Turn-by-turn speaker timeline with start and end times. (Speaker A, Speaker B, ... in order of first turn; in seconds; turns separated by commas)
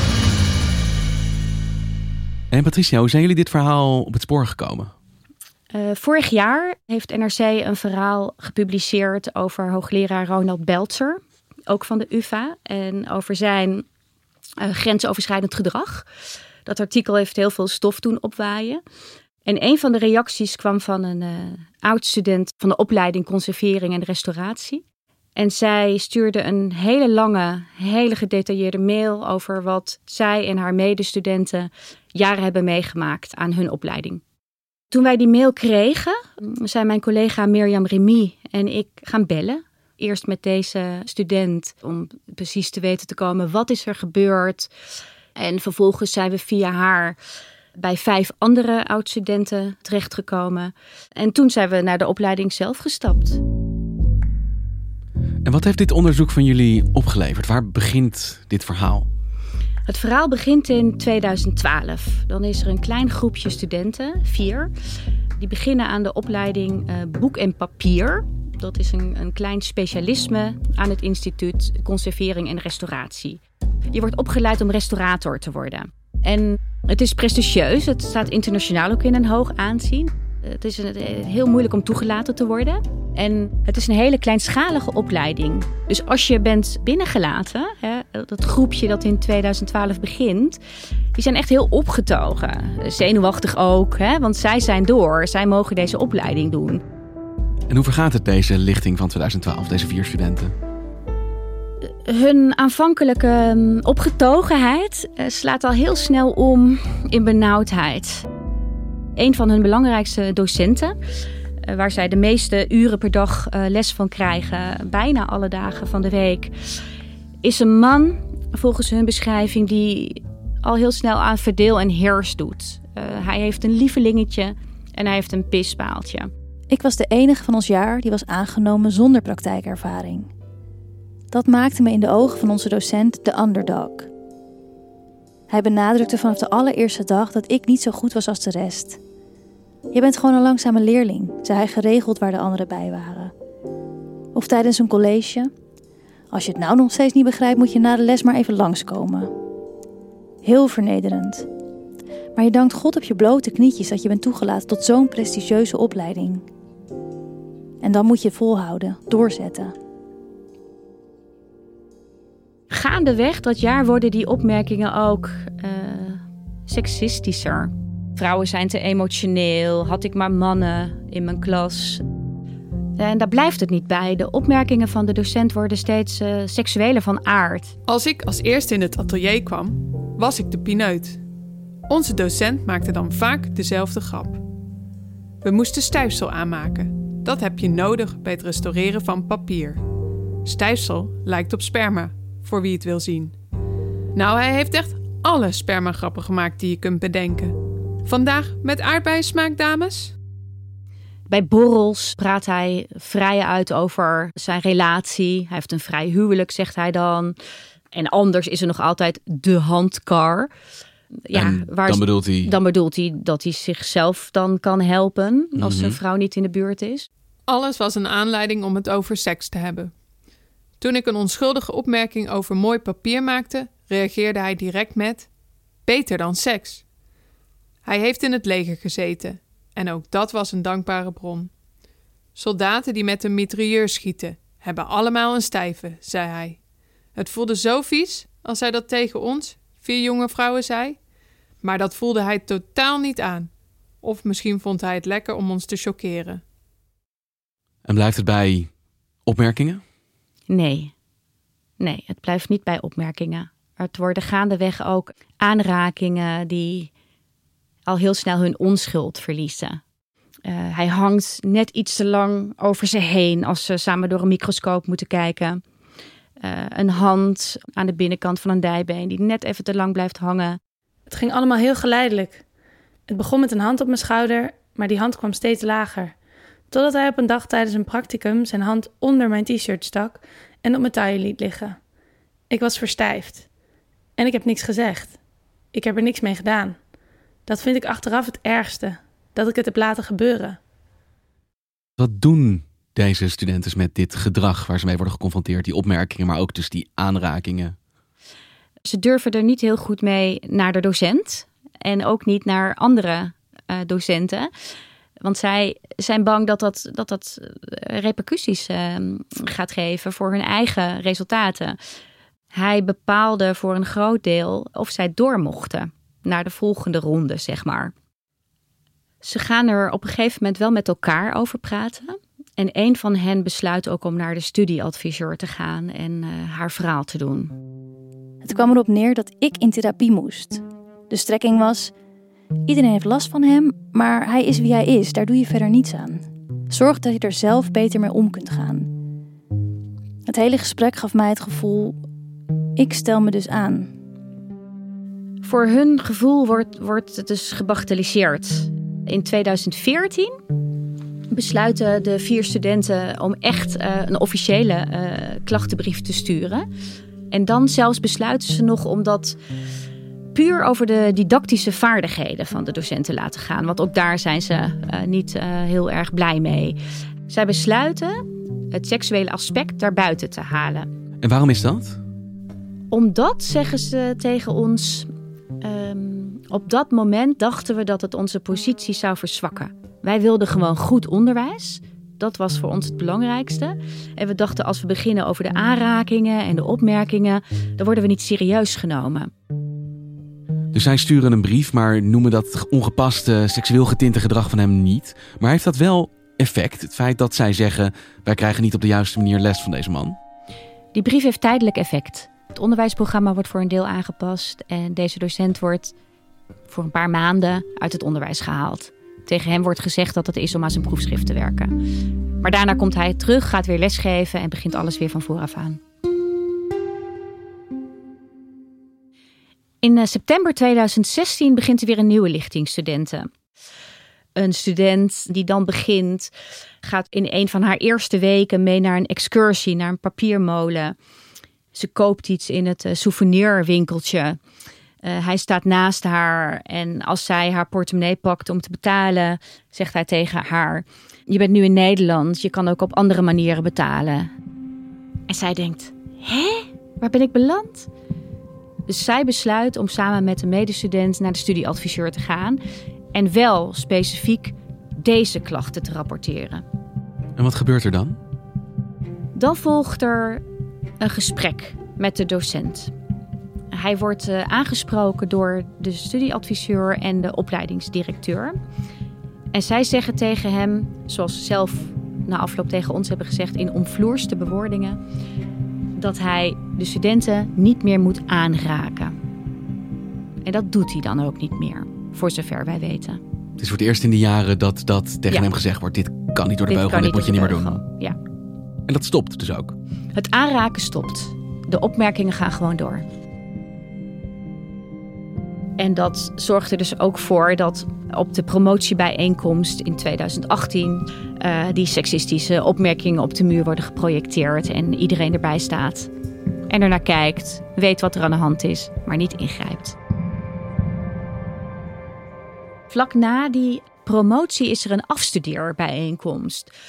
Speaker A: 2.5-4.9, Speaker B: 5.7-13.8, Speaker B: 14.6-16.1, Speaker B: 16.6-18.8, Speaker B: 19.4-24.8, Speaker B: 25.4-34.2, Speaker B: 34.9-44.7, Speaker B: 45.3-47.2, Speaker B: 47.8-53.4, Speaker A: 55.4-59.1, Speaker B: 59.9-64.7, Speaker B: 65.3-73.4, Speaker B: 73.9-90.6, Speaker B: 91.1-96.8, Speaker A: 97.7-100.5, Speaker B: 101.8-108.2, Speaker B: 109.2-111.0, Speaker B: 111.6-116.5, Speaker B: 117.4-126.3, Speaker C: 126.7-130.3, Speaker C: 131.3-134.1, Speaker C: 135.5-139.0, Speaker C: 139.9-143.3, Speaker C: 144.3-145.5, Speaker C: 146.3-149.3, Speaker C: 150.4-151.4, Speaker C: 152.3-156.4, Speaker C: 157.8-159.7, Speaker B: 162.7-172.0, Speaker B: 173.0-177.7, Speaker D: 177.9-181.2, Speaker D: 181.9-184.4, Speaker D: 185.4-189.8, Speaker D: 190.4-193.3, Speaker D: 194.1-197.5, Speaker D: 198.1-200.1, Speaker B: 201.3-207.3, Speaker B: 207.9-210.5, Speaker B: 211.3-217.1, Speaker A: 211.3-212.5, Speaker A: 215.6-216.0, Speaker D: 217.5-219.9, Speaker D: 220.8-225.3, Speaker D: 225.8-226.8, Speaker D: 227.8-231.5, Speaker D: 232.3-236.6, Speaker D: 237.1-241.0, Speaker D: 241.6-243.5, Speaker D: 244.0-246.4, Speaker A: 247.8-248.7, Speaker A: 249.2-249.8, Speaker B: 250.5-250.9, Speaker B: 251.8-256.9, Speaker B: 257.9-259.8, Speaker B: 260.4-265.6, Speaker B: 266.4-270.6, Speaker E: 271.1-272.4, Speaker E: 273.1-276.1, Speaker E: 276.7-281.8, Speaker E: 282.5-283.4, Speaker E: 284.2-285.2, Speaker E: 285.7-286.8, Speaker E: 287.4-290.6, Speaker A: 292.0-297.7, Speaker B: 298.8-304.5, Speaker B: 305.2-311.8, Speaker B: 312.5-317.9, Speaker B: 319.2-327.5, Speaker C: 328.4-331.9, Speaker C: 332.7-338.9, Speaker C: 340.3-342.0, Speaker C: 342.8-343.9, Speaker B: 345.4-350.3, Speaker B: 351.3-356.7, Speaker B: 357.3-359.4, Speaker B: 360.3-370.9, Speaker A: 371.2-372.0, Speaker B: 372.9-375.1, Speaker B: 375.6-389.3, Speaker A: 390.7-400.2, Speaker B: 400.9-405.9, Speaker B: 406.7-411.8, Speaker B: 412.4-415.8, Speaker B: 419.8-423.3, Speaker B: 424.3-426.3, Speaker B: 426.8-430.9, Speaker B: 431.7-434.4, Speaker B: 435.0-444.3, Speaker B: 445.3-447.9, Speaker B: 448.9-452.6, Speaker B: 453.1-456.6, Speaker A: 457.4-458.2, Speaker B: 459.3-460.4, Speaker B: 461.0-462.9, Speaker B: 463.7-468.6, Speaker B: 469.5-475.0, Speaker B: 476.0-479.1, Speaker B: 480.4-483.2, Speaker A: 483.6-487.8, Speaker B: 486.7-488.2, Speaker A: 488.9-489.8, Speaker B: 490.1-493.0, Speaker B: 495.8-506.1, Speaker B: 506.7-510.0, Speaker B: 512.9-516.7